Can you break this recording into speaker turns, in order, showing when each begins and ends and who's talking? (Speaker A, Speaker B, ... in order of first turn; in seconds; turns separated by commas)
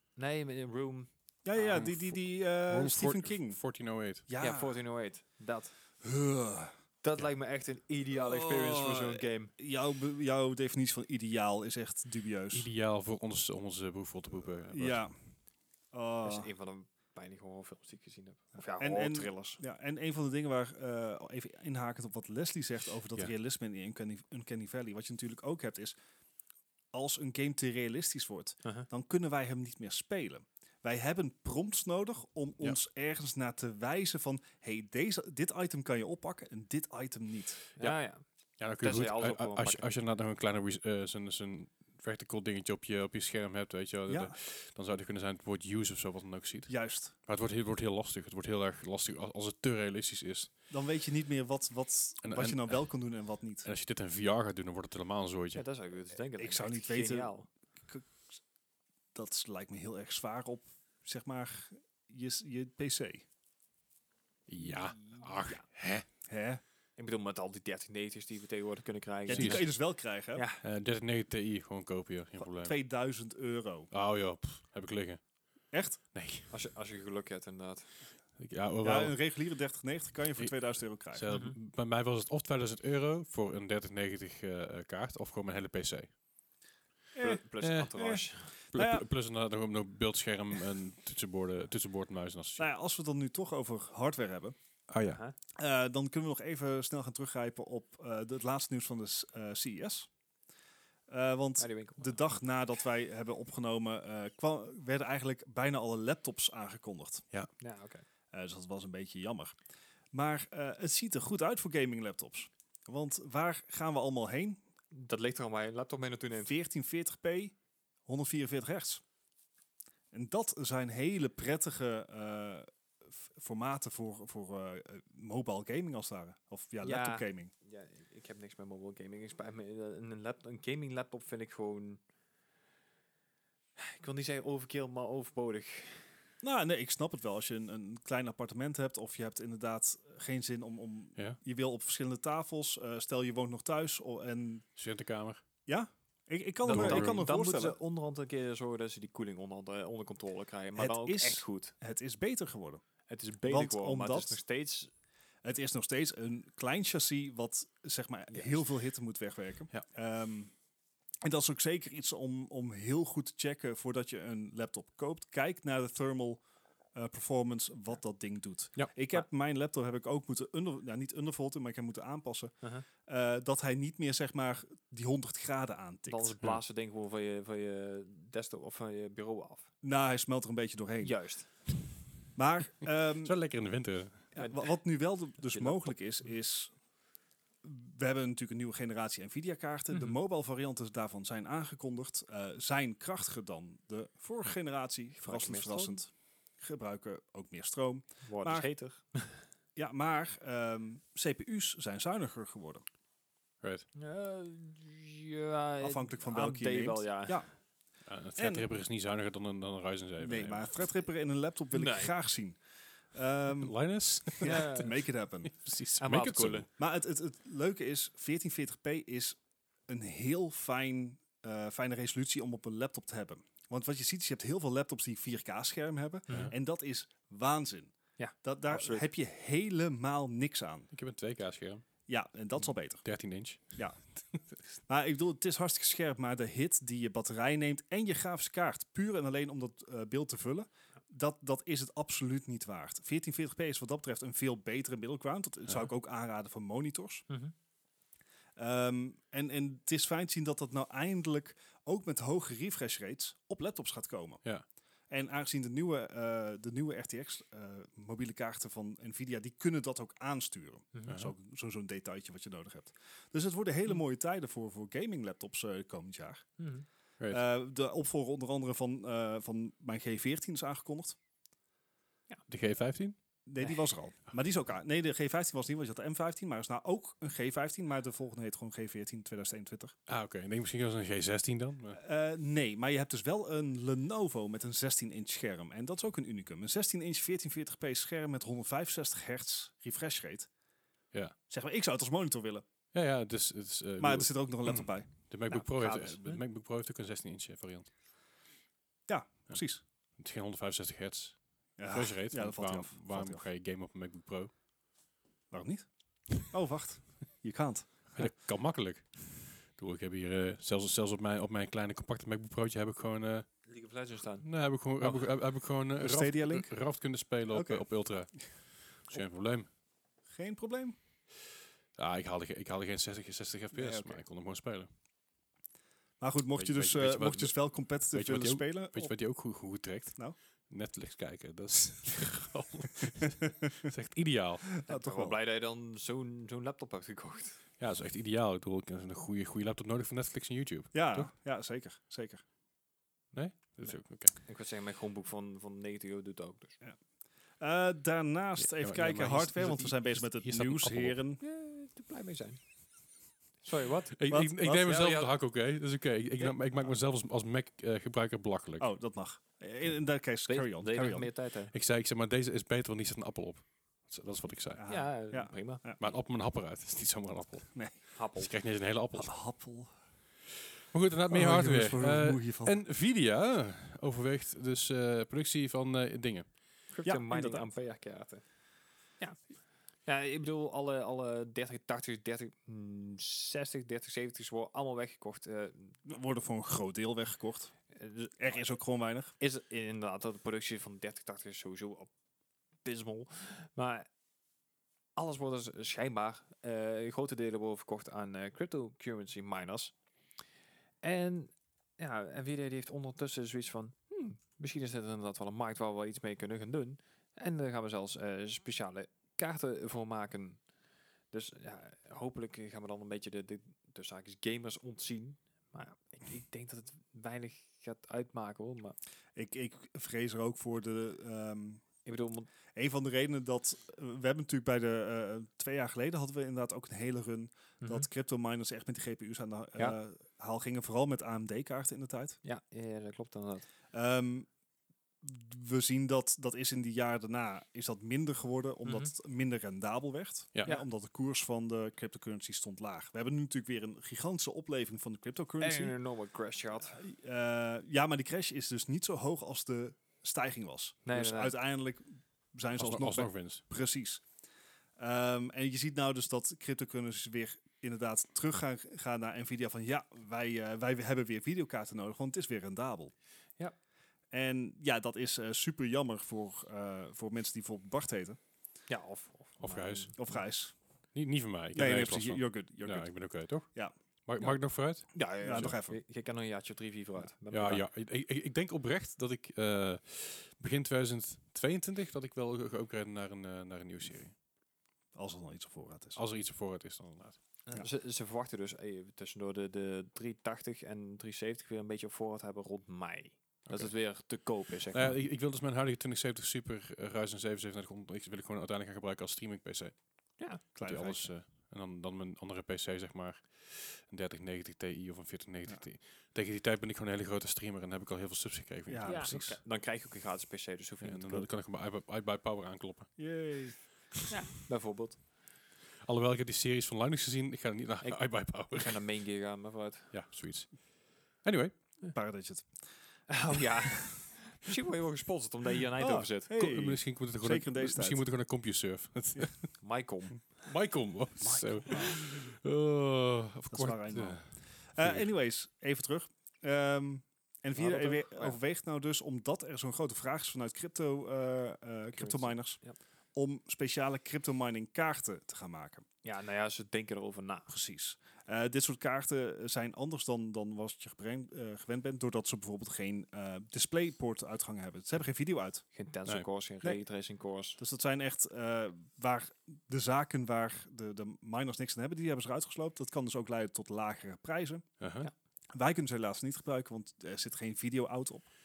Speaker A: 0.2-1.9, Speaker B: 1.4-3.6, Speaker C: 1.8-4.3, Speaker B: 4.3-4.8, Speaker A: 4.4-5.8, Speaker B: 6.0-6.8, Speaker A: 7.0-9.5, Speaker B: 8.1-12.7, Speaker C: 12.5-15.0, Speaker B: 14.7-15.1, Speaker B: 15.9-16.5, Speaker A: 16.2-19.6, Speaker B: 18.8-26.0, Speaker B: 26.9-37.6, Speaker A: 37.8-38.2, Speaker C: 38.6-50.5, Speaker A: 38.8-39.9, Speaker B: 44.1-44.3, Speaker B: 46.7-47.1, Speaker B: 50.7-53.7, Speaker C: 52.2-52.9, Speaker C: 53.6-55.6, Speaker A: 55.5-57.5, Speaker B: 56.4-57.3, Speaker B: 57.9-58.3, Speaker B: 59.1-63.2, Speaker C: 64.5-66.1, Speaker A: 64.7-65.6, Speaker B: 66.3-66.6, Speaker A: 67.0-69.8, Speaker B: 69.3-70.4, Speaker C: 69.3-69.7, Speaker A: 70.3-70.6, Speaker C: 70.6-72.7, Speaker B: 72.5-73.9, Speaker C: 73.9-75.2, Speaker B: 75.7-76.0, Speaker C: 76.1-76.5, Speaker A: 76.5-77.9, Speaker C: 78.4-79.2, Speaker B: 78.8-81.2, Speaker C: 81.1-86.1, Speaker A: 81.3-81.6, Speaker B: 87.2-87.4, Speaker A: 87.2-88.6, Speaker C: 87.6-88.0, Speaker B: 88.0-89.0, Speaker C: 88.7-92.7, Speaker B: 92.6-94.5, Speaker C: 94.9-95.2, Speaker B: 95.6-100.1, Speaker B: 101.1-107.2, Speaker A: 101.6-102.2, Speaker A: 107.6-108.0, Speaker B: 108.3-109.6, Speaker B: 110.1-114.6, Speaker A: 114.9-116.5, Speaker B: 116.4-117.5, Speaker B: 118.1-119.0, Speaker B: 120.1-122.7, Speaker B: 123.2-127.5, Speaker A: 126.8-132.0, Speaker A: 133.8-136.1, Speaker B: 136.4-144.7, Speaker C: 144.8-145.4, Speaker B: 145.7-147.8, Speaker C: 146.7-147.2, Speaker A: 146.7-151.7, Speaker B: 150.8-152.8, Speaker A: 153.1-154.9, Speaker B: 153.4-154.4, Speaker B: 155.4-160.5, Speaker A: 158.3-158.6, Speaker B: 161.2-166.4, Speaker B: 166.9-176.3, Speaker A: 176.1-179.7, Speaker B: 179.8-181.1, Speaker A: 181.0-181.7, Speaker B: 182.3-183.3, Speaker C: 183.2-184.3, Speaker B: 184.3-186.7, Speaker A: 184.4-184.8, Speaker A: 185.4-185.9, Speaker B: 187.6-198.7, Speaker A: 189.9-190.2, Speaker A: 195.2-196.0, Speaker A: 198.2-199.4, Speaker B: 199.8-202.8, Speaker A: 203.9-207.4, Speaker B: 205.8-207.5, Speaker C: 208.1-210.7, Speaker B: 208.4-208.7, Speaker B: 210.2-212.6, Speaker A: 211.7-212.1, Speaker B: 213.1-213.7, Speaker C: 213.5-214.9, Speaker B: 214.3-215.5, Speaker A: 214.4-215.0, Speaker C: 215.4-216.7, Speaker A: 216.0-216.7, Speaker B: 216.8-230.9, Speaker A: 226.3-226.5, Speaker C: 226.3-226.5, Speaker A: 228.2-229.1, Speaker C: 230.9-231.8, Speaker B: 232.1-233.1, Speaker C: 233.0-233.8, Speaker B: 233.8-234.0, Speaker B: 234.9-247.3, Speaker B: 248.6-254.4, Speaker B: 255.1-266.5, Speaker A: 260.9-261.2, Speaker C: 261.1-261.3, Speaker A: 266.6-266.9, Speaker B: 267.3-271.2, Speaker C: 272.5-273.2, Speaker B: 273.5-279.9, Speaker C: 280.1-282.0, Speaker B: 282.0-290.5, Speaker B: 291.5-292.7, Speaker C: 292.9-297.9, Speaker B: 294.0-295.1, Speaker A: 295.5-296.4, Speaker B: 299.1-299.8, Speaker C: 300.2-304.5, Speaker B: 301.8-303.4, Speaker B: 305.5-308.3, Speaker C: 308.1-313.5, Speaker A: 313.7-314.5, Speaker C: 314.4-319.7, Speaker B: 316.0-316.8, Speaker B: 317.5-318.5, Speaker B: 320.3-321.0, Speaker C: 322.0-324.9, Speaker B: 323.7-324.2, Speaker B: 326.2-329.1, Speaker C: 326.6-327.6, Speaker C: 328.1-334.6, Speaker B: 334.7-335.4, Speaker A: 334.9-337.6, Speaker C: 337.8-341.3, Speaker B: 340.9-342.4, Speaker C: 343.3-344.4, Speaker A: 343.8-346.8, Speaker B: 347.6-351.4, Speaker C: 348.6-351.2, Speaker A: 351.4-352.6, Speaker A: 353.6-354.3, Speaker C: 354.2-358.9, Speaker B: 354.3-354.9, Speaker A: 354.8-355.3, Speaker B: 358.8-361.3, Speaker A: 360.5-361.7, Speaker C: 361.7-364.8, Speaker B: 364.8-366.0, Speaker A: 364.9-365.8, Speaker C: 366.0-369.3, Speaker A: 368.2-368.5, Speaker B: 369.1-369.9, Speaker C: 370.9-376.5, Speaker B: 371.3-372.8, Speaker A: 376.9-378.4, Speaker B: 377.0-377.7, Speaker A: 380.1-386.0, Speaker B: 386.1-387.7, Speaker A: 387.9-388.7, Speaker B: 388.4-389.4, Speaker A: 389.4-392.1, Speaker A: 392.8-394.1, Speaker A: 395.2-399.9, Speaker A: 401.0-410.6, Speaker A: 411.3-419.0, Speaker B: 419.4-421.9, Speaker A: 422.1-422.5, Speaker B: 422.8-432.4, Speaker A: 427.8-428.1, Speaker A: 432.4-433.7, Speaker B: 433.9-434.5, Speaker B: 435.2-445.9, Speaker A: 438.9-439.1, Speaker A: 445.6-447.0, Speaker B: 446.9-454.2, Speaker A: 451.1-451.5, Speaker C: 452.8-453.6, Speaker B: 455.0-463.1, Speaker B: 464.3-468.4, Speaker A: 468.9-470.4, Speaker C: 469.6-470.1, Speaker B: 470.2-470.8, Speaker C: 471.1-475.8, Speaker B: 471.7-473.9, Speaker A: 474.4-477.9, Speaker B: 475.4-476.0, Speaker C: 477.5-484.3, Speaker B: 485.1-486.2, Speaker C: 486.2-487.4, Speaker A: 487.7-495.2, Speaker C: 493.7-493.9, Speaker C: 494.9-500.0, Speaker A: 500.4-500.6, Speaker C: 500.6-509.6, Speaker B: 500.8-501.3, Speaker B: 508.9-509.4, Speaker A: 509.1-511.5, Speaker C: 511.0-513.3, Speaker B: 513.2-513.8, Speaker A: 514.3-515.2, Speaker C: 516.0-519.0, Speaker A: 518.0-520.1, Speaker C: 520.1-520.8, Speaker C: 521.4-521.8, Speaker B: 522.1-522.9, Speaker A: 523.3-526.5, Speaker B: 526.0-528.2, Speaker C: 526.5-529.8, Speaker A: 529.8-530.7, Speaker C: 530.6-535.3, Speaker B: 531.4-532.2, Speaker B: 533.7-542.8, Speaker A: 537.8-538.6, Speaker A: 542.2-543.0, Speaker B: 543.3-546.0, Speaker A: 546.2-547.7, Speaker B: 547.7-555.9, Speaker A: 556.0-557.8, Speaker B: 557.8-564.9, Speaker C: 565.0-565.3, Speaker B: 565.7-568.5